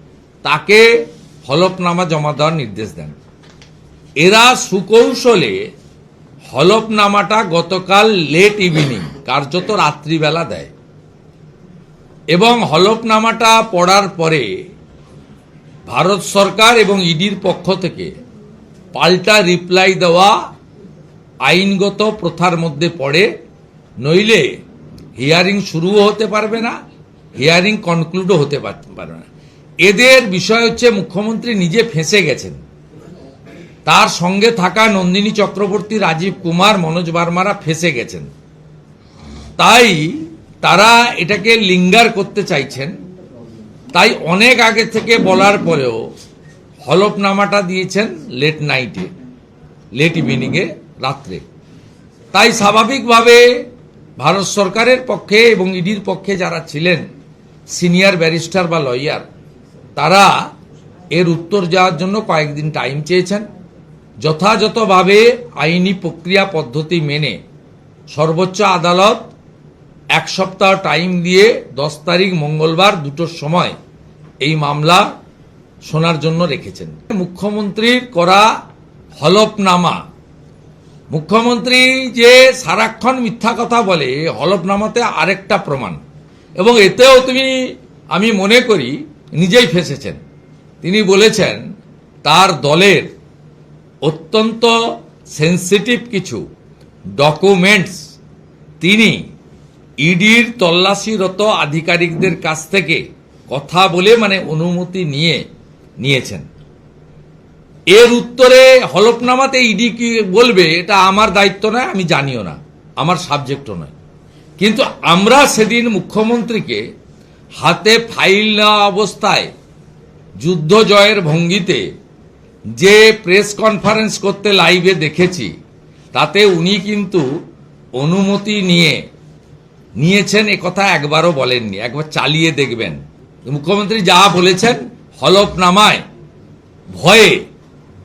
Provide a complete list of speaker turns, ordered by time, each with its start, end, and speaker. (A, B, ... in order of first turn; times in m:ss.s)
0:00.4-0:03.1 A
0:04.2-0:05.7 A
0:06.5-0:10.7 A
0:12.3-0:14.5 A
0:15.9-0:18.1 A
0:18.9-0:20.4 A
0:21.4-0:23.3 A
0:24.0-0:24.5 A
0:25.2-0:26.7 A
0:27.4-0:29.3 A
0:29.8-0:32.6 A
0:33.8-0:38.3 A
0:39.6-0:42.9 A
0:43.9-0:46.0 A
0:46.8-0:49.1 A
0:49.9-0:51.4 A
0:52.3-0:53.6 A
0:54.2-0:57.0 A
0:57.7-0:59.2 A
1:00.0-1:00.3 A
1:01.1-1:03.5 A
1:04.2-1:07.4 A
1:08.1-1:09.3 A
1:10.1-1:13.8 A
1:14.4-1:15.1 A
1:15.8-1:18.5 A
1:19.2-1:20.0 A
1:21.1-1:26.0 A
1:26.6-1:30.2 A
1:30.8-1:31.6 A
1:32.2-1:33.1 A
1:34.0-1:34.8 A
1:35.3-1:36.4 A
1:37.2-1:38.0 A
1:38.8-1:39.2 A
1:40.0-1:45.4 A
1:46.0-1:46.4 A
1:47.9-1:53.9 A
1:54.6-1:56.8 A
1:57.6-1:59.5 A
2:00.4-2:01.8 A
2:02.8-2:05.5 A
2:06.1-2:07.2 A
2:08.0-2:09.0 A
2:10.0-2:16.0 A
2:16.9-2:17.4 A